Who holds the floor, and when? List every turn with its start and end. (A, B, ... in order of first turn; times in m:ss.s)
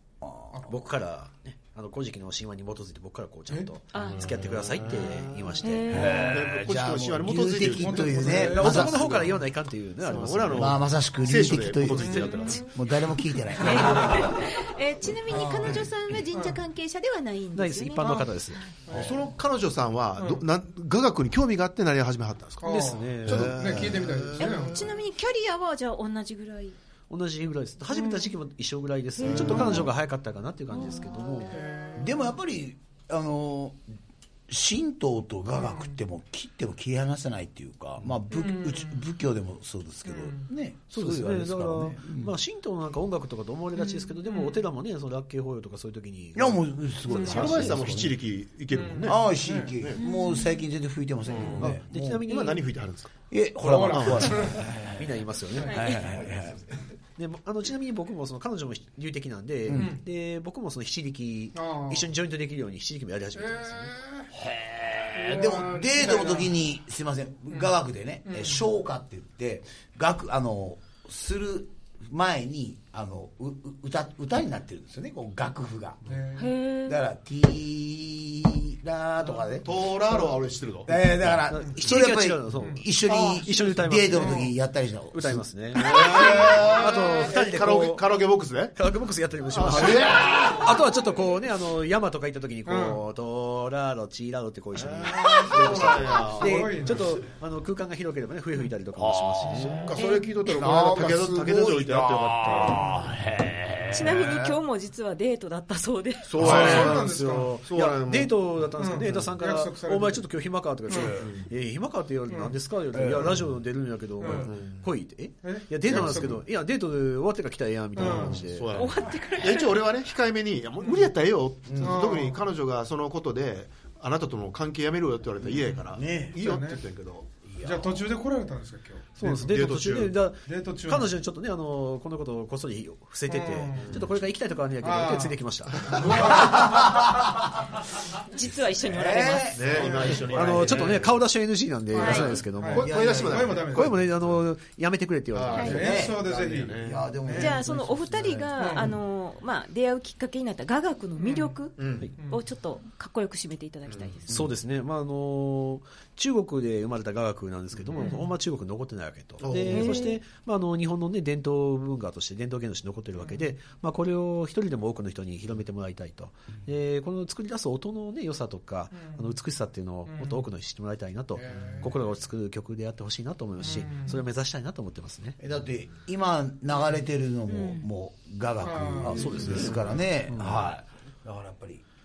0:00.2-0:00.6 A
0:00.6-0:06.6 B
0:03.9-0:04.3 C
0:04.0-0:09.4 D
0:05.6-0:06.5 C
0:05.9-0:09.0 A
0:07.6-0:08.9 E
0:08.2-0:10.8 B
0:10.0-0:13.0 D
0:10.5-0:14.3 A
0:12.0-0:12.3 E
0:12.2-0:12.7 C
0:13.6-0:18.8 C
0:13.7-0:14.2 E
0:15.3-0:16.6 E
0:17.5-0:18.6 B
0:18.9-0:19.2 E
0:18.9-0:24.9 D
0:20.2-0:20.4 E
0:22.6-0:24.8 E
0:22.6-0:24.0 B
0:23.3-0:23.8 A
0:24.4-0:26.8 C
0:27.1-0:31.6 B
0:27.9-0:28.3 C
0:29.2-0:29.8 C
0:29.2-0:29.9 D
0:29.4-0:29.8 A
0:30.7-0:31.5 C
0:31.5-0:32.2 E
0:31.9-0:33.8 A
0:34.5-0:42.4 A
0:35.6-0:36.0 E
0:38.3-0:39.0 E
0:40.1-0:40.5 E
0:40.9-0:46.6 B
0:43.8-0:44.1 C
0:44.2-0:44.6 E
0:46.4-0:48.2 A
0:47.1-0:47.5 E
0:47.1-0:50.0 D
0:47.4-0:47.7 B
0:48.7-0:49.8 E
0:49.0-0:52.3 A
0:50.0-0:50.6 C
0:51.3-0:53.1 D
0:51.6-0:52.7 B
0:53.3-0:55.2 A
0:53.6-0:54.6 E
0:53.9-0:54.4 D
0:54.1-0:56.6 B
0:55.6-0:55.9 E
0:55.6-0:56.1 C
0:55.7-0:56.6 A
0:57.2-1:04.0 B
0:59.6-1:00.0 A
0:59.7-1:00.0 E
1:01.6-1:02.1 E
1:03.4-1:04.3 E
1:04.3-1:16.0 A
1:05.1-1:06.5 E
1:08.3-1:08.7 E
1:16.1-1:16.5 E
1:16.4-1:17.0 C
1:16.8-1:25.5 A
1:19.6-1:21.1 D
1:21.5-1:24.6 B
1:22.6-1:22.8 E
1:23.1-1:23.4 D
1:23.6-1:24.5 E
1:25.1-1:28.1 B
1:25.8-1:28.8 D
1:26.1-1:26.6 A
1:28.7-1:39.9 B
1:29.5-1:30.6 D
1:29.6-1:30.8 A
1:32.6-1:33.0 E
1:34.7-1:37.0 D
1:35.4-1:36.2 A
1:35.5-1:37.2 E
1:39.0-1:39.8 A
1:39.1-1:43.0 D
1:40.0-1:40.4 C
1:40.4-1:44.6 A
1:43.9-1:46.3 C
1:46.2-1:48.3 D
1:46.4-1:47.6 E
1:46.4-1:59.1 B
1:48.8-1:50.3 E
1:50.9-1:51.2 E
1:51.1-1:51.5 D
1:52.3-1:52.6 E
1:53.1-1:53.4 E
1:54.2-1:54.5 E
1:54.4-1:54.8 D
1:55.4-1:56.0 E
1:55.9-1:56.4 D
1:57.9-1:58.4 E
1:58.0-2:07.5 D
1:58.7-1:59.9 C
2:00.8-2:01.1 E
2:01.6-2:02.1 A
2:01.8-2:02.4 E
2:05.4-2:06.4 A
2:05.6-2:05.8 E
2:06.4-2:06.8 E
2:07.4-2:08.0 A
2:07.6-2:09.5 E
2:09.2-2:16.5 B
2:09.4-2:10.2 D
2:10.4-2:11.2 E
2:13.3-2:14.0 E
2:14.8-2:17.2 E
2:16.1-2:17.8 A
2:18.3-2:19.7 C
2:18.8-2:20.9 A
2:19.5-2:21.1 D
2:19.7-2:21.0 E
2:20.1-2:25.8 B
2:21.9-2:24.0 E
2:21.9-2:22.4 C
2:22.7-2:23.6 A
2:22.7-2:24.3 D
2:25.3-2:27.0 D
2:25.5-2:25.8 C
2:25.6-2:27.6 E
2:25.6-2:28.9 A
2:27.3-2:34.3 C
2:28.6-2:28.9 E
2:31.2-2:31.6 E
2:31.8-2:32.1 D
2:32.2-2:32.4 E
2:34.3-2:34.6 A
2:34.3-2:55.4 B
2:37.9-2:38.3 E
2:39.4-2:40.0 D
2:39.7-2:40.2 C
2:50.1-2:50.4 E
2:51.4-2:51.9 E
2:53.6-2:54.2 E
2:55.4-3:01.9 A
2:57.5-2:57.9 C
2:58.6-2:59.6 E
2:59.0-3:00.7 B